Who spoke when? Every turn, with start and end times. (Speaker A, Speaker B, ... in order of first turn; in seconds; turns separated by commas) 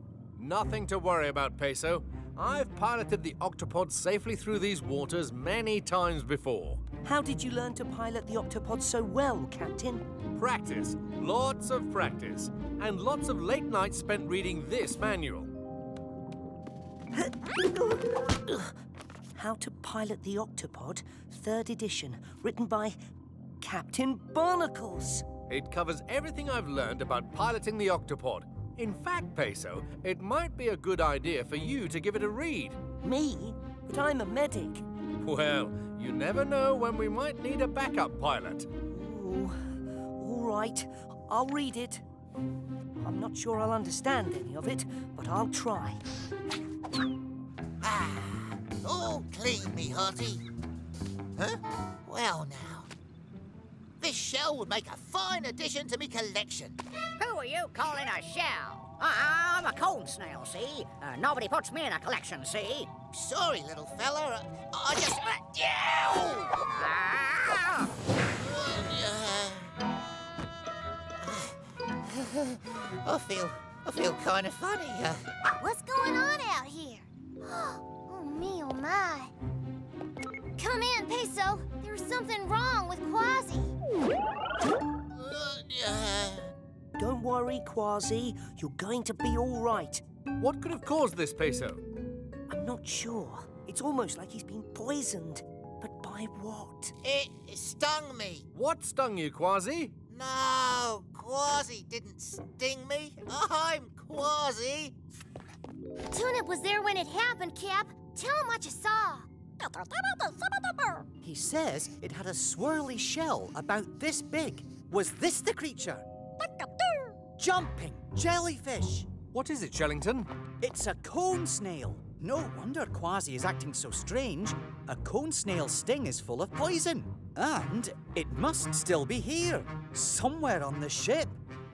Speaker A: 0.3-6.8, Speaker B: 7.0-10.1, Speaker A: 10.3-15.5, Speaker B: 17.1-18.7, Speaker B: 19.3-22.9, Speaker B: 23.6-25.2, Speaker A: 25.5-32.8, Speaker B: 33.0-34.9, Speaker A: 35.2-38.7, Speaker B: 38.9-42.0, Speaker B: 43.0-46.0, Speaker C: 47.8-50.4, Speaker C: 51.4-52.9, Speaker C: 54.0-56.8, Speaker D: 57.2-62.9, Speaker C: 63.1-66.6, Speaker D: 66.7-67.9, Speaker C: 68.4-69.7, Speaker C: 71.2-75.2, Speaker E: 75.6-79.3, Speaker E: 80.6-83.7, Speaker C: 85.1-86.5, Speaker B: 87.0-90.0, Speaker A: 90.4-91.8, Speaker B: 92.5-96.9, Speaker C: 97.0-98.5, Speaker A: 98.5-99.9, Speaker C: 100.1-104.9, Speaker E: 106.1-109.3, Speaker D: 109.6-111.0, Speaker F: 111.2-116.0, Speaker F: 117.4-119.1, Speaker A: 119.3-120.3, Speaker F: 120.6-131.4